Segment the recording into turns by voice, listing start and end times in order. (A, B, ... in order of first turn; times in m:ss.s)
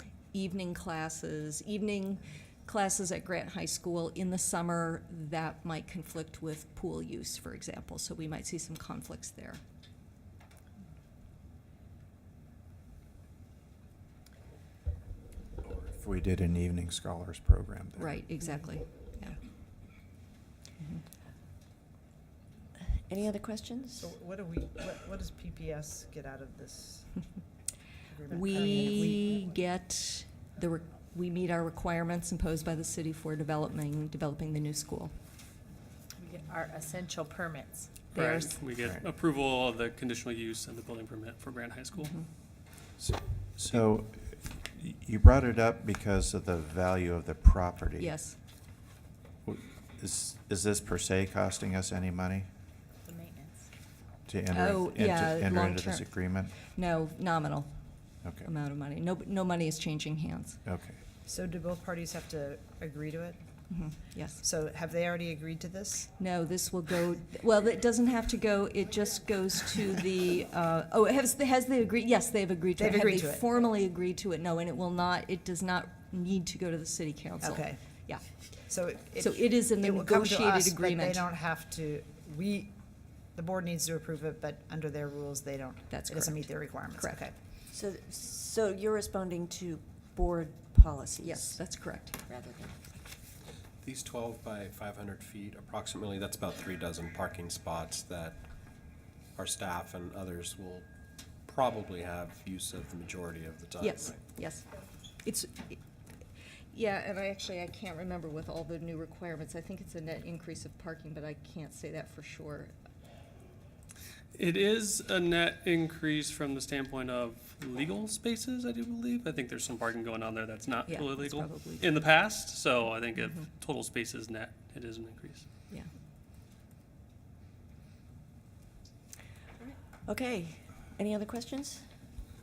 0:00.3-0:09.6 A
0:15.6-0:18.2 B
0:18.0-0:19.4 A
0:23.1-0:24.1 C
0:24.0-0:27.3 D
0:28.1-0:29.4 D
0:28.3-0:35.1 A
0:36.2-0:38.2 E
0:38.1-0:38.6 A
0:38.1-0:42.2 F
0:38.8-0:39.1 B
0:43.0-0:48.2 B
0:48.0-0:48.4 A
0:49.4-0:52.5 B
0:53.0-0:53.7 E
0:54.3-0:56.6 B
0:54.5-0:57.7 A
0:58.4-1:00.6 A
1:00.6-1:01.0 B
1:01.2-1:03.4 D
1:03.7-1:04.4 A
1:04.4-1:06.1 D
1:06.2-1:18.3 A
1:12.8-1:13.5 D
1:17.4-1:17.8 D
1:18.6-1:22.8 D
1:19.2-1:21.2 A
1:23.3-1:27.4 D
1:25.9-1:27.2 A
1:27.7-1:31.6 C
1:31.2-1:32.2 A
1:32.3-1:32.8 C
1:33.8-1:38.4 G
1:39.4-1:40.9 G
1:41.5-1:44.2 G
1:43.8-1:44.7 A
1:45.2-1:45.8 A
1:46.7-1:52.7 A
1:54.3-2:05.5 F
2:00.9-2:01.9 A
2:03.2-2:03.4 A
2:10.1-2:11.8 C